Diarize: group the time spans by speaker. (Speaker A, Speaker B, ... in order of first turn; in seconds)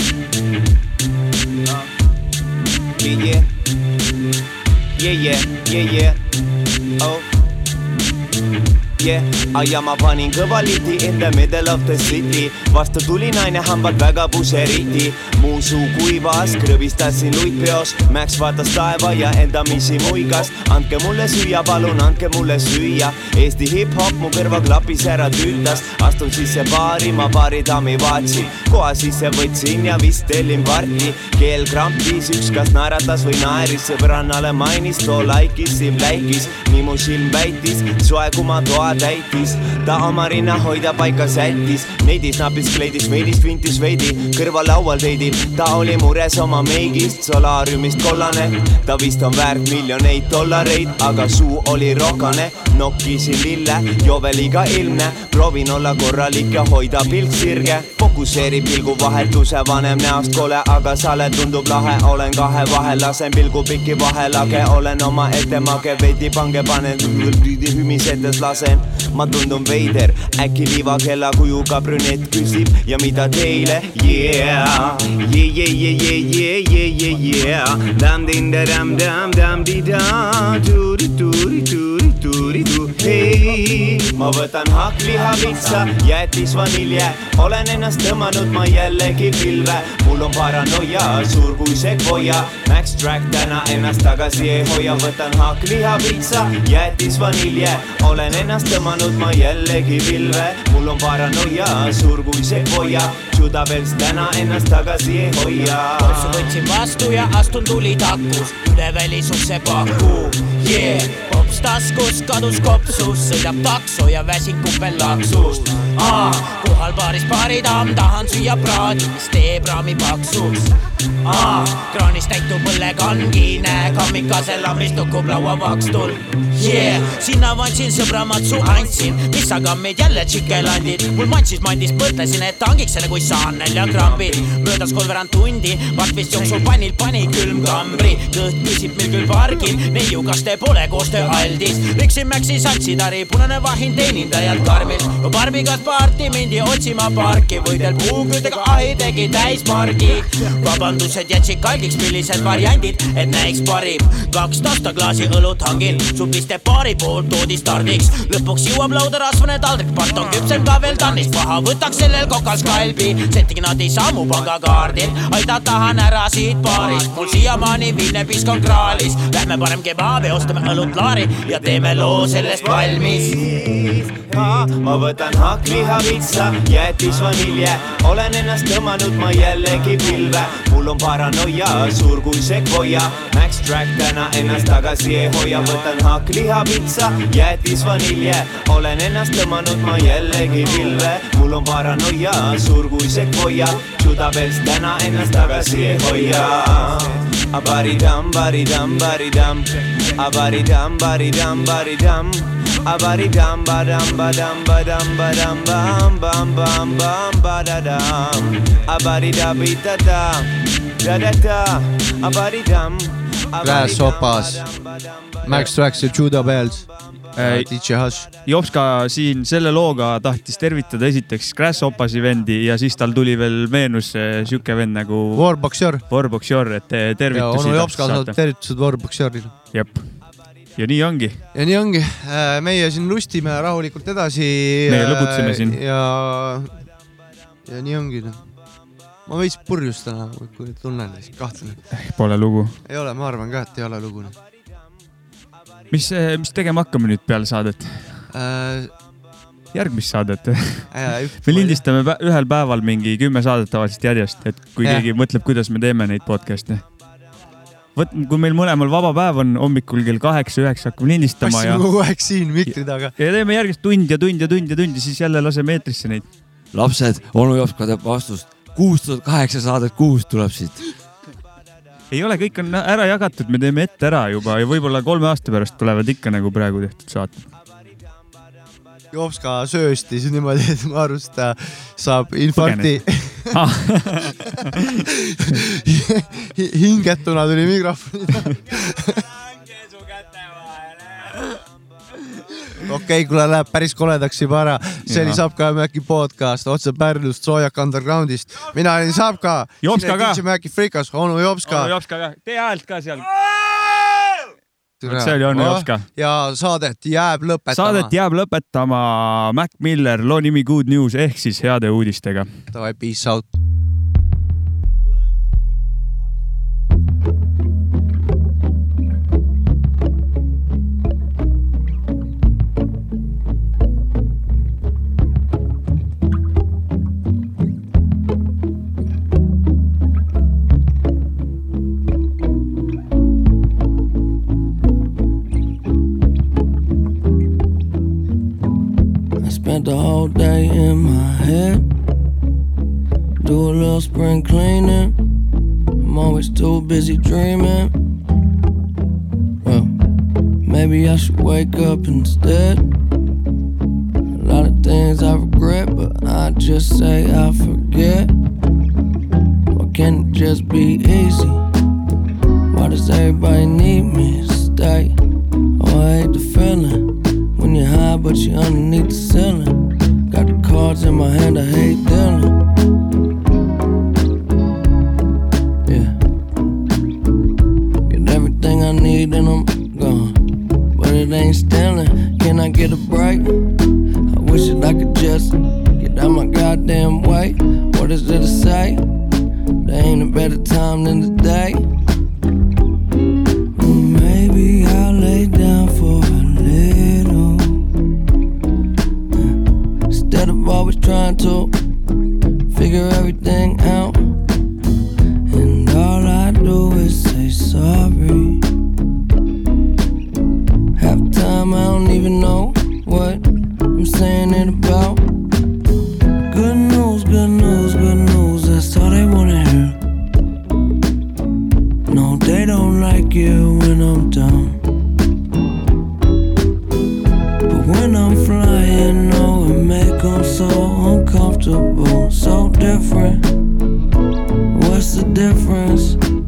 Speaker A: 3.0-3.5, 5.0-6.2, 7.0-7.2, 9.0-106.3, 172.3-215.4
Speaker B: 106.0-120.7, 121.2-173.4
Speaker C: 213.6-214.6, 215.4-218.3, 225.3-226.0, 227.3-229.5, 231.5-236.8, 237.7-238.4, 239.3-241.8, 242.8-244.4, 248.3-248.9, 250.9-251.8, 254.8-255.1, 261.4-263.1, 279.1-283.6, 285.6-289.2, 292.9-301.9, 305.0-308.1, 312.7-313.5
Speaker D: 217.4-217.7, 218.4-228.4, 229.7-231.4, 234.9-235.8, 241.9-242.8, 245.9-248.2, 249.7-250.9, 251.4-256.9, 258.0-261.9, 262.6-266.3, 272.1-277.5, 282.5-284.5, 295.1-295.4, 299.8-300.4, 301.6-303.9, 305.1-306.1, 307.7-312.5
Speaker E: 266.7-270.8
Speaker F: 339.4-341.9, 343.4-345.2, 346.0-347.9, 349.6-350.0, 350.6-352.9, 354.4-358.3, 359.7-361.6, 362.7-365.2, 365.8-372.6, 375.9-376.2, 378.1-389.1, 389.8-391.9, 393.8-397.8, 400.1-401.7, 402.7-404.4, 405.5-408.6, 411.0-415.3, 416.5-420.0, 422.1-424.8, 427.7-433.5, 434.7-436.2